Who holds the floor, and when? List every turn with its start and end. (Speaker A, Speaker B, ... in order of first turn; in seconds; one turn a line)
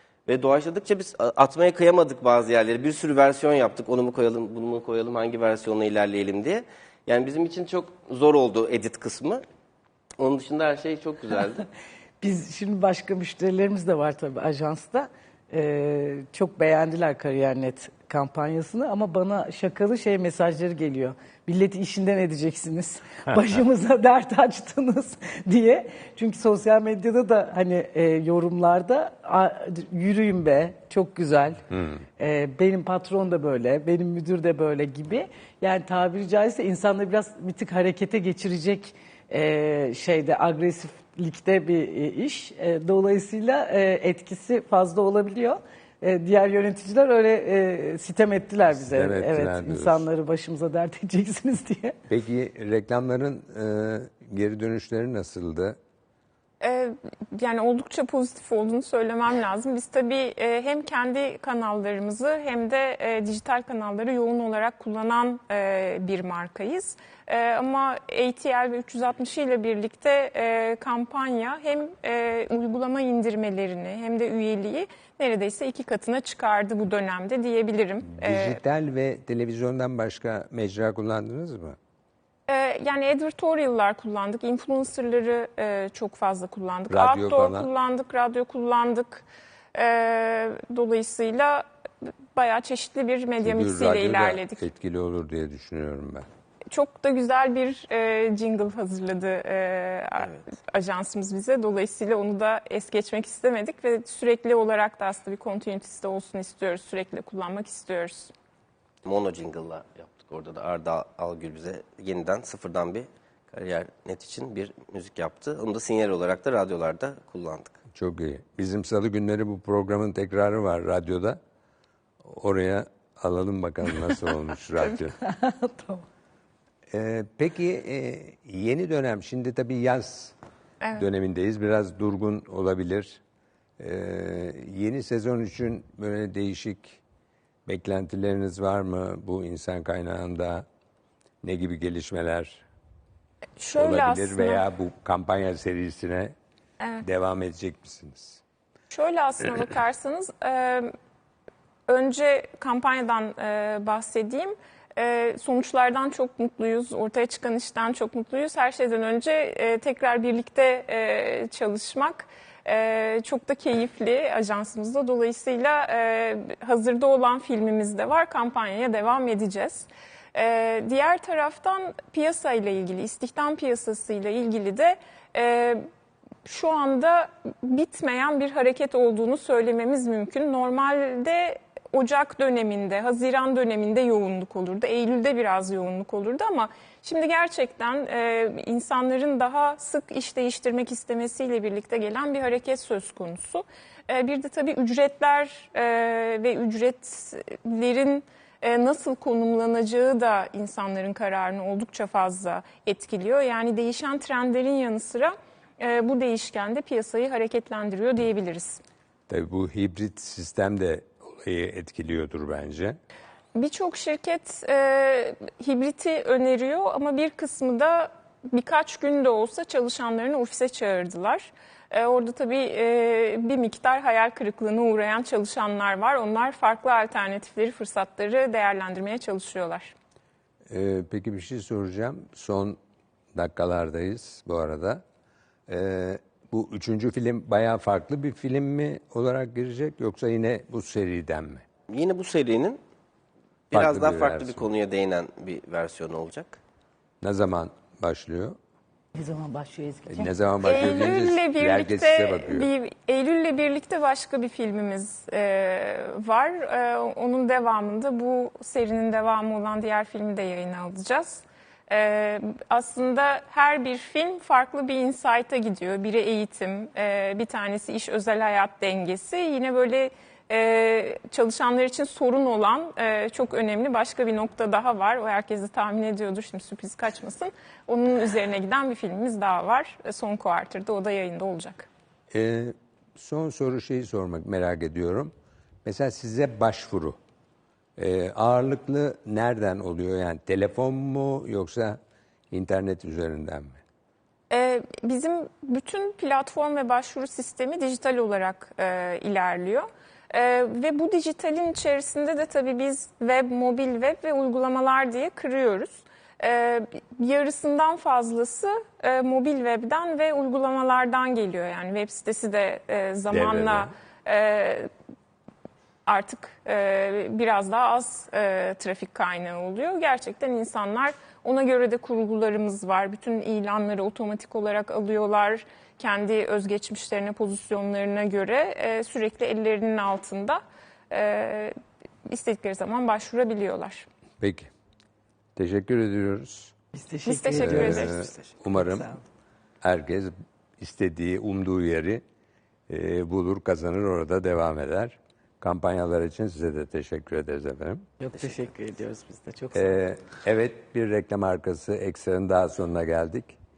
Speaker A: 0.3-9.4
Speaker A: 10.2-11.6
Speaker B: 12.2-31.6
Speaker C: 31.7-32.0
Speaker B: 32.2-52.0
Speaker C: 48.7-50.0
Speaker C: 52.1-55.8
Speaker D: 56.6-78.6
Speaker C: 78.1-81.8
Speaker D: 82.5-91.6
Speaker C: 86.9-87.7
Speaker D: 92.3-94.6
Speaker C: 93.4-96.2
Speaker D: 96.7-108.3
Speaker A: 109.0-117.7
Speaker C: 117.9-121.4
Speaker C: 122.2-125.2
Speaker B: 125.2-126.0
Speaker C: 126.9-130.3
Speaker C: 130.9-133.2
Speaker C: 133.8-137.0
Speaker C: 137.7-140.7
Speaker C: 141.4-142.6
Speaker D: 143.6-144.6
Speaker C: 143.7-146.3
Speaker C: 147.0-148.4
Speaker D: 148.9-150.9
Speaker D: 151.9-175.8
Speaker D: 176.4-208.8
Speaker C: 209.3-213.0
Speaker D: 213.5-229.9
Speaker C: 230.7-232.8
Speaker C: 233.3-235.0
Speaker C: 235.7-241.6
Speaker A: 241.9-242.8
Speaker A: 243.7-246.6
Speaker C: 243.7-244.7
Speaker C: 247.2-248.6
Speaker B: 249.1-250.3
Speaker C: 250.1-252.7
Speaker D: 250.6-281.9
Speaker C: 282.3-285.3
Speaker C: 285.8-287.2
Speaker C: 288.0-292.0
Speaker C: 292.5-293.8
Speaker D: 294.5-314.9
Speaker C: 313.3-313.9
Speaker D: 316.1-331.7
Speaker D: 332.3-334.1
Speaker C: 334.4-334.7
Speaker C: 335.6-336.7
Speaker B: 336.9-339.2
Speaker D: 337.2-338.1
Speaker C: 337.6-339.1
Speaker C: 339.8-342.2
Speaker C: 342.9-348.1
Speaker B: 348.2-350.0
Speaker C: 349.7-353.6